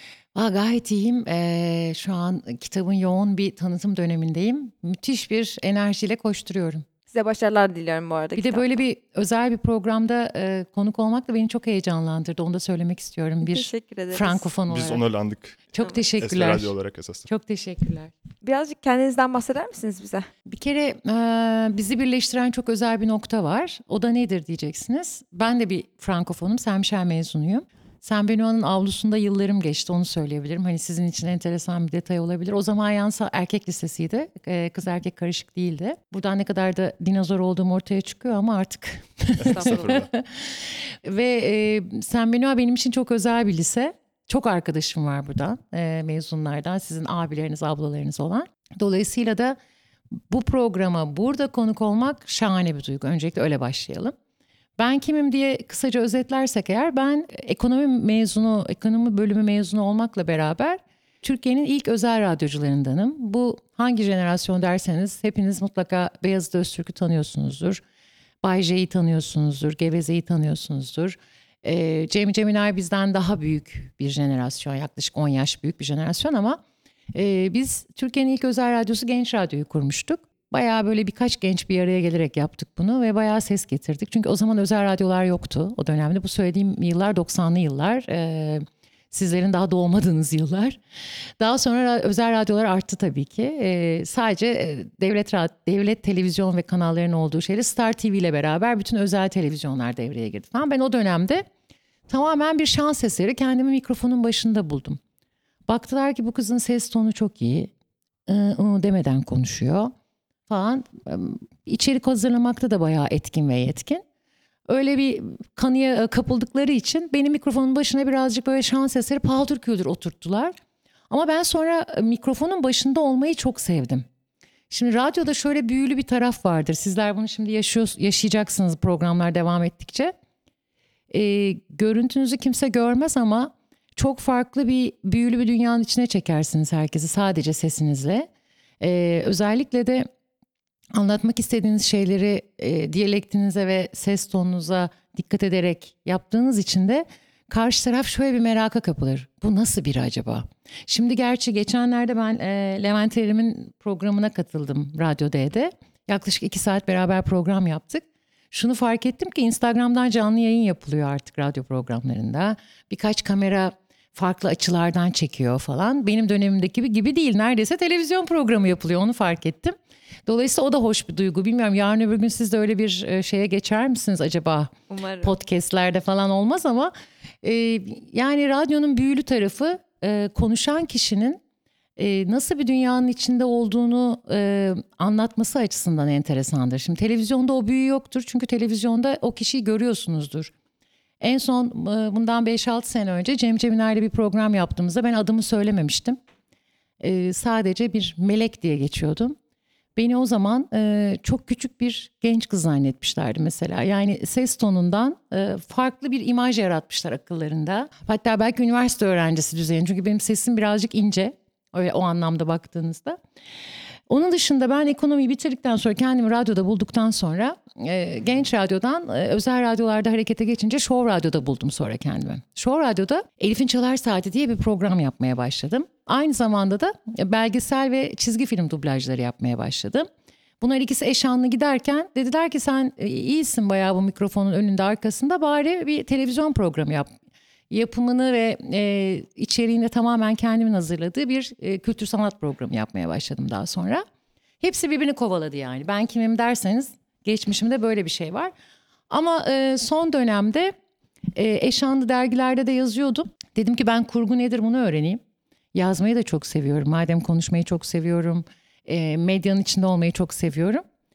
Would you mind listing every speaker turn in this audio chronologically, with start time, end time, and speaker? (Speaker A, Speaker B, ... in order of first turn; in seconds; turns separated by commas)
Speaker A: 0.3-6.9, Speaker B: 7.1-8.8, Speaker A: 8.4-15.0, Speaker B: 13.4-14.5, Speaker C: 14.7-17.3, Speaker A: 15.7-16.7, Speaker A: 17.3-18.1, Speaker B: 18.4-20.3, Speaker A: 20.5-49.6, Speaker C: 39.4-40.1, Speaker B: 39.5-39.9, Speaker A: 50.3-54.1, Speaker A: 54.8-67.8, Speaker A: 68.4-76.6, Speaker A: 77.1-90.8, Speaker A: 91.4-101.5, Speaker A: 102.1-105.0, Speaker A: 105.7-107.7, Speaker A: 108.3-109.9, Speaker A: 110.5-114.0, Speaker A: 114.7-120.5, Speaker A: 121.1-124.1, Speaker A: 124.7-130.1, Speaker A: 131.1-138.3, Speaker A: 138.8-140.1, Speaker A: 140.9-169.8, Speaker A: 170.3-181.4, Speaker B: 174.9-175.3, Speaker A: 182.0-190.5, Speaker A: 191.2-196.2, Speaker A: 197.0-199.4, Speaker A: 200.0-213.2, Speaker A: 214.1-230.1, Speaker A: 230.6-237.1, Speaker A: 237.7-244.0, Speaker A: 244.6-248.5, Speaker A: 249.1-250.7, Speaker A: 251.3-255.2, Speaker A: 255.7-260.8